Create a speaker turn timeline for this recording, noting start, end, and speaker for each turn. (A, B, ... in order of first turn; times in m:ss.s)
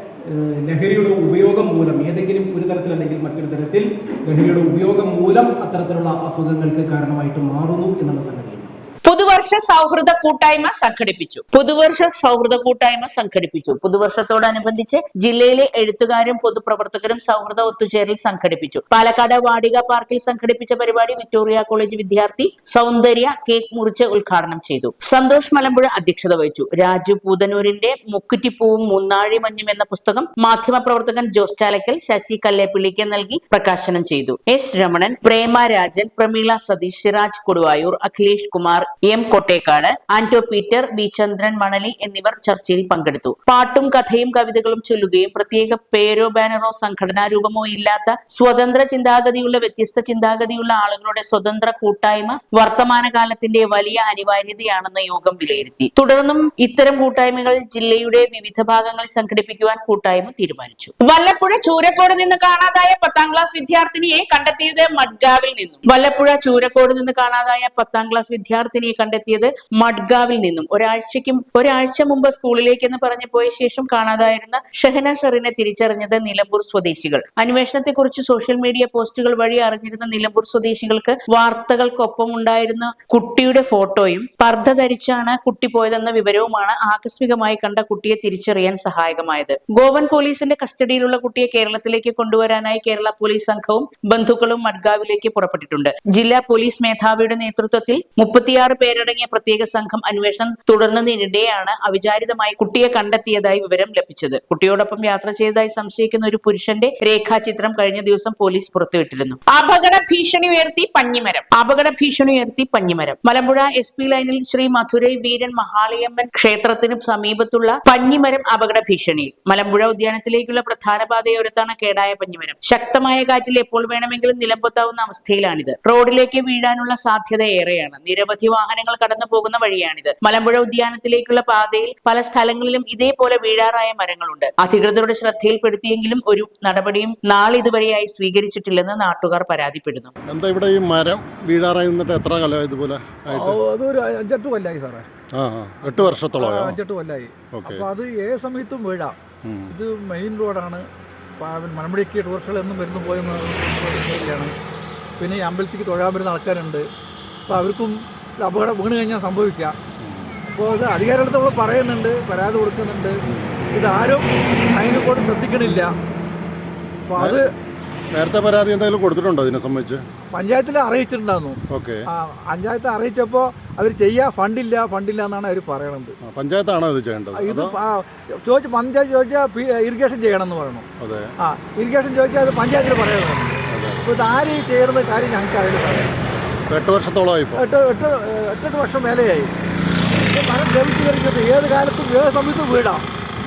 0:00.3-0:08.7 A
0:09.0-2:20.1 B
2:20.3-2:23.6 C
2:23.3-2:25.0 D
2:25.3-2:26.8 C
2:25.8-2:29.2 D
2:27.5-2:27.8 C
2:29.4-2:29.7 C
2:29.7-2:30.8 D
2:31.4-2:34.5 D
2:35.2-2:36.8 D
2:37.5-2:39.8 D
2:40.0-2:40.3 C
2:40.5-2:43.2 D
2:43.3-2:43.6 C
2:43.7-2:45.9 D
2:47.1-2:47.4 D
2:48.1-2:50.0 C
2:50.3-2:56.2 D
2:51.7-2:52.0 C
2:56.2-2:57.7 C
2:57.3-3:00.8 D
3:01.0-3:01.3 C
3:01.4-3:06.2 D
3:03.7-3:04.0 C
3:06.7-3:07.6 C
3:07.6-3:09.5 D
3:10.2-3:13.0 D